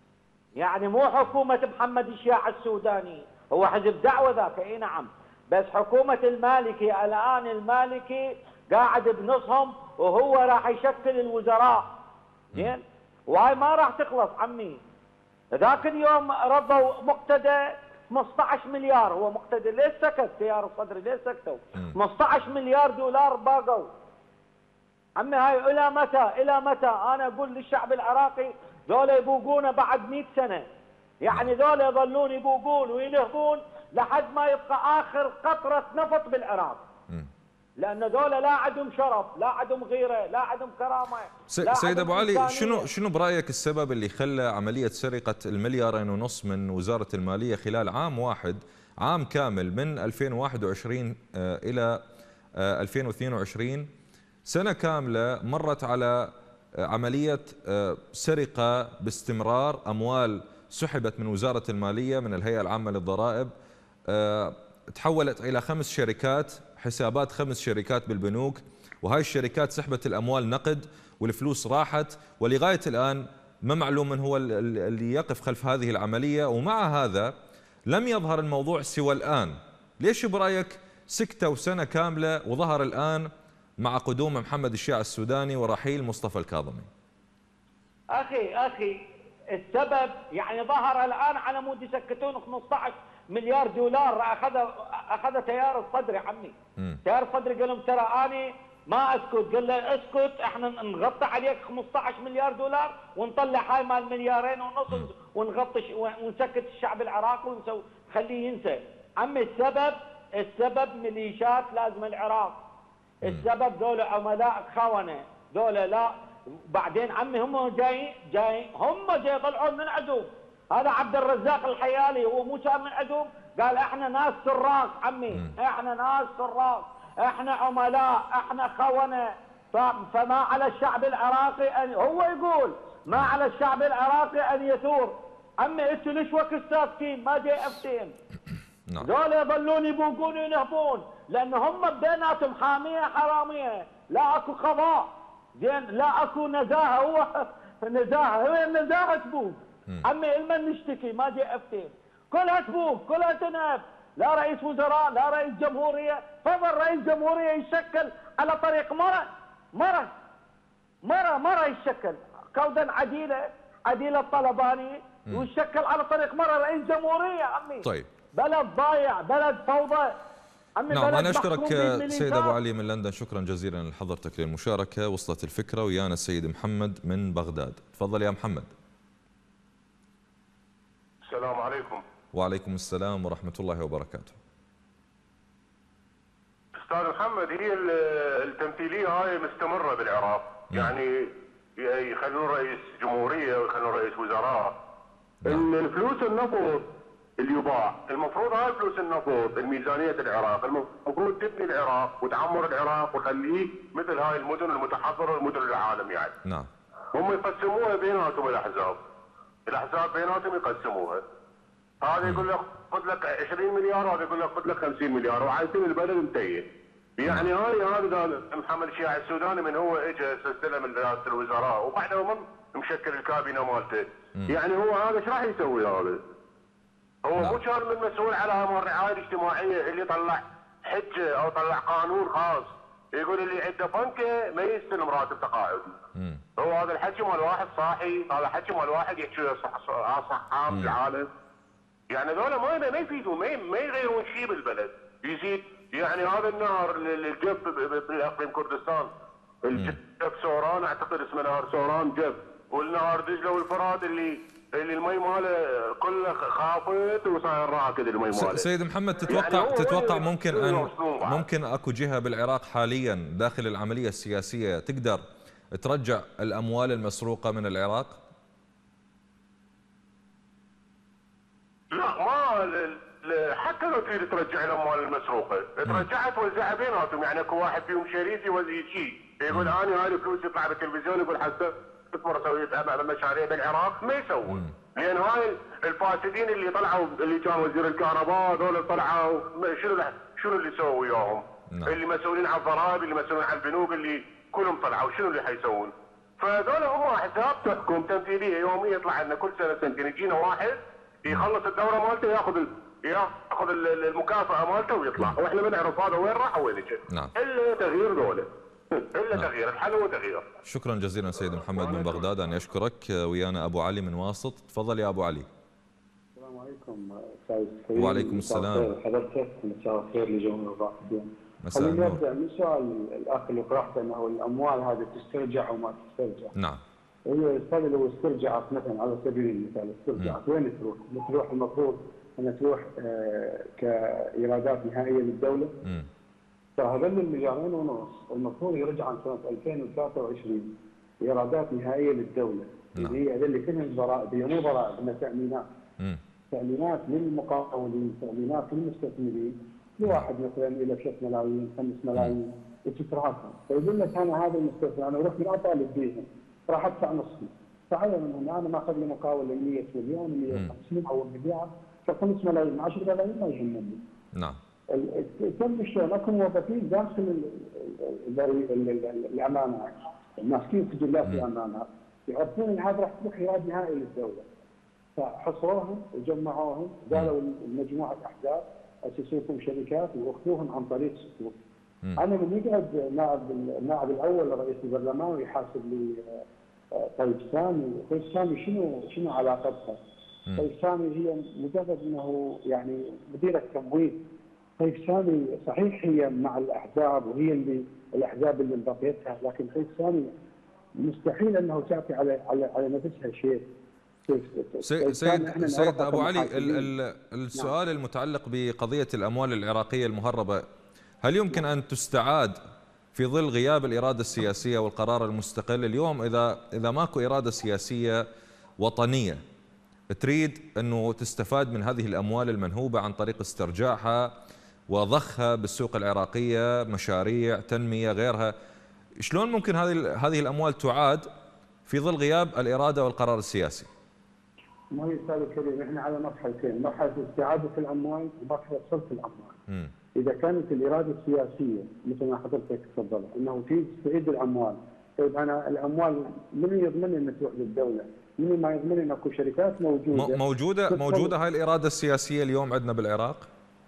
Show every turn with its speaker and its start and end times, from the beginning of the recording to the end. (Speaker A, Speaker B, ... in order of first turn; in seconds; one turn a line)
Speaker A: 0.6-11.9
Speaker A: 12.5-14.8
Speaker A: 15.6-23.9
Speaker A: 25.2-30.6
Speaker A: 31.2-36.8
Speaker A: 37.8-42.9
Speaker B: 41.5-52.0
Speaker B: 52.6-53.9
Speaker B: 54.5-56.3
Speaker B: 56.9-63.5
Speaker B: 64.1-77.3
Speaker B: 77.9-83.3
Speaker B: 83.8-86.9
Speaker A: 88.1-89.0
Speaker A: 89.5-96.5
Speaker A: 97.0-112.6
Speaker A: 113.2-116.1
Speaker A: 116.6-138.1
Speaker A: 139.0-160.1
Speaker A: 161.0-170.1
Speaker A: 170.8-172.5
Speaker B: 170.9-178.7
Speaker C: 181.2-182.0
Speaker B: 182.3-184.3
Speaker C: 186.7-194.7
Speaker C: 195.5-206.3
Speaker C: 207.1-209.0
Speaker C: 209.7-211.2
Speaker C: 212.0-216.7
Speaker B: 212.2-212.5
Speaker C: 217.2-226.2
Speaker B: 217.2-217.5
Speaker C: 227.2-235.9
Speaker B: 227.4-227.6
Speaker B: 236.2-236.4
Speaker C: 236.6-241.3
Speaker B: 240.7-240.9
Speaker C: 242.1-249.1
Speaker C: 249.6-258.6
Speaker B: 258.3-265.2
Speaker C: 259.2-261.4
Speaker B: 265.7-268.2
Speaker C: 271.9-310.5
Speaker B: 279.5-279.8
Speaker B: 284.4-284.7
Speaker B: 310.6-315.5
Speaker C: 311.6-312.3
Speaker D: 316.3-326.5
Speaker B: 318.0-318.9
Speaker B: 321.6-322.2
Speaker B: 326.6-326.8
Speaker D: 327.2-335.7
Speaker D: 336.8-345.6
Speaker D: 346.5-364.0
Speaker D: 364.9-374.4
Speaker D: 375.1-381.6
Speaker D: 382.2-386.4
Speaker D: 386.9-390.0
Speaker D: 390.6-394.2
Speaker D: 394.8-400.3
Speaker D: 401.0-403.6
Speaker D: 404.3-406.9
Speaker B: 404.8-410.6
Speaker B: 411.2-412.6
Speaker B: 413.1-418.2
Speaker B: 418.8-419.4
Speaker B: 420.1-424.3
Speaker B: 424.9-428.5
Speaker B: 429.2-431.2
Speaker B: 431.9-433.9
Speaker D: 434.9-439.5
Speaker D: 440.1-451.3
Speaker B: 450.1-453.5